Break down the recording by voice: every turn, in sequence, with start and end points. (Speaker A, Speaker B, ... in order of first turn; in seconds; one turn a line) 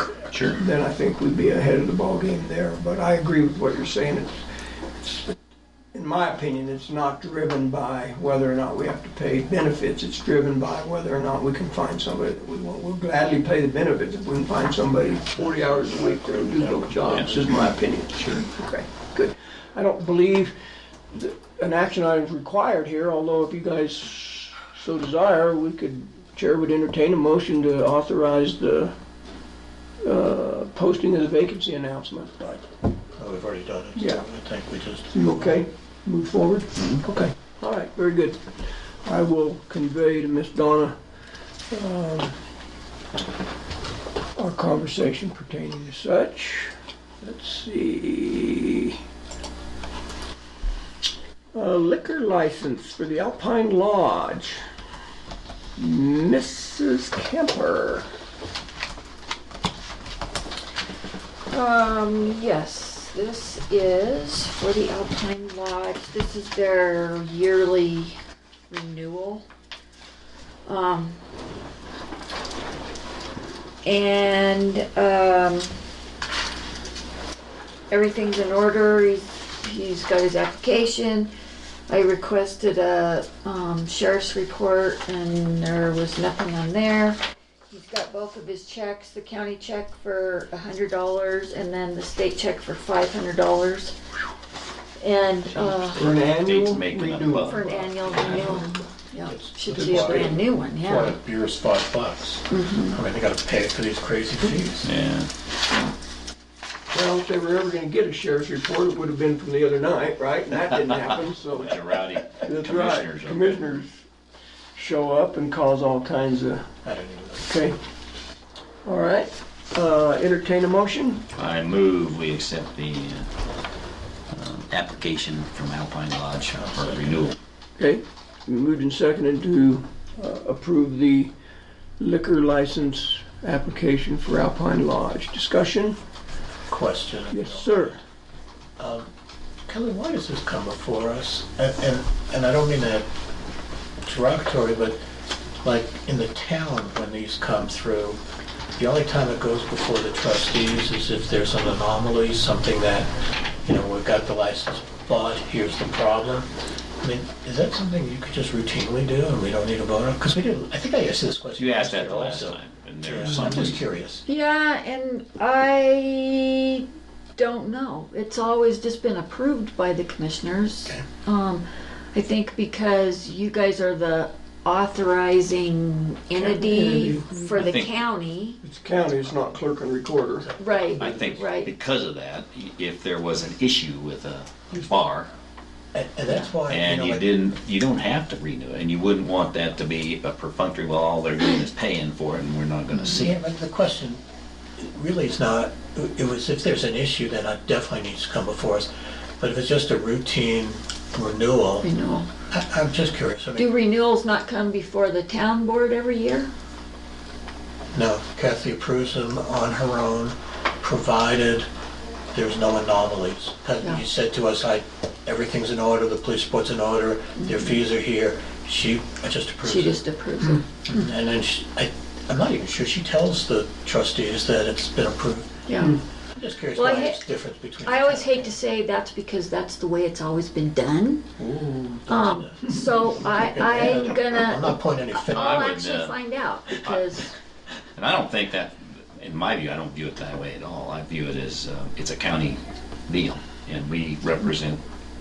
Speaker A: 0.3-0.6
Speaker B: 0.5-4.4
Speaker B: 5.9-20.6
Speaker C: 15.3-17.7
Speaker B: 21.1-28.9
Speaker B: 30.0-32.6
Speaker C: 33.2-35.6
Speaker B: 34.0-34.2
Speaker B: 35.1-38.5
Speaker B: 39.0-41.0
Speaker B: 41.7-42.4
Speaker B: 44.4-49.0
Speaker B: 51.5-54.6
Speaker B: 55.8-58.1
Speaker D: 61.5-68.2
Speaker D: 68.7-69.4
Speaker D: 70.7-71.2
Speaker D: 73.8-75.7
Speaker D: 77.9-81.3
Speaker D: 81.9-93.9
Speaker D: 95.0-96.0
Speaker A: 95.5-98.7
Speaker B: 96.0-98.5
Speaker D: 97.5-101.2
Speaker C: 99.2-104.9
Speaker B: 99.7-100.3
Speaker D: 102.5-103.0
Speaker A: 104.8-105.3
Speaker B: 106.9-114.0
Speaker A: 111.5-113.7
Speaker B: 114.7-116.7
Speaker C: 116.8-117.5
Speaker B: 117.4-117.8
Speaker B: 118.8-121.2
Speaker A: 121.3-123.3
Speaker A: 124.3-127.3
Speaker C: 126.4-127.2
Speaker B: 127.8-131.3
Speaker B: 132.0-136.0
Speaker C: 136.7-138.0
Speaker B: 137.3-138.0
Speaker C: 138.8-139.1
Speaker C: 139.7-143.1
Speaker C: 144.0-145.0
Speaker C: 145.6-148.2
Speaker C: 148.8-153.1
Speaker C: 153.6-156.5
Speaker C: 157.0-164.2
Speaker A: 161.6-163.9
Speaker D: 164.2-178.6
Speaker B: 176.3-177.4
Speaker A: 177.5-178.0
Speaker B: 178.6-180.5
Speaker C: 179.1-179.6
Speaker C: 180.4-181.5
Speaker D: 180.6-181.7
Speaker A: 181.0-185.3
Speaker C: 185.9-187.2
Speaker A: 186.7-193.3
Speaker C: 193.1-194.2
Speaker C: 194.8-201.9
Speaker D: 201.8-202.3
Speaker C: 202.5-203.7
Speaker D: 203.6-206.5
Speaker C: 207.9-211.7
Speaker C: 212.3-220.0
Speaker D: 219.6-221.0
Speaker C: 220.8-225.6
Speaker D: 225.7-225.9
Speaker C: 226.3-228.6
Speaker D: 226.8-227.2
Speaker D: 227.8-231.3
Speaker C: 231.4-235.7
Speaker D: 232.1-237.3
Speaker A: 235.3-237.1
Speaker A: 237.9-244.8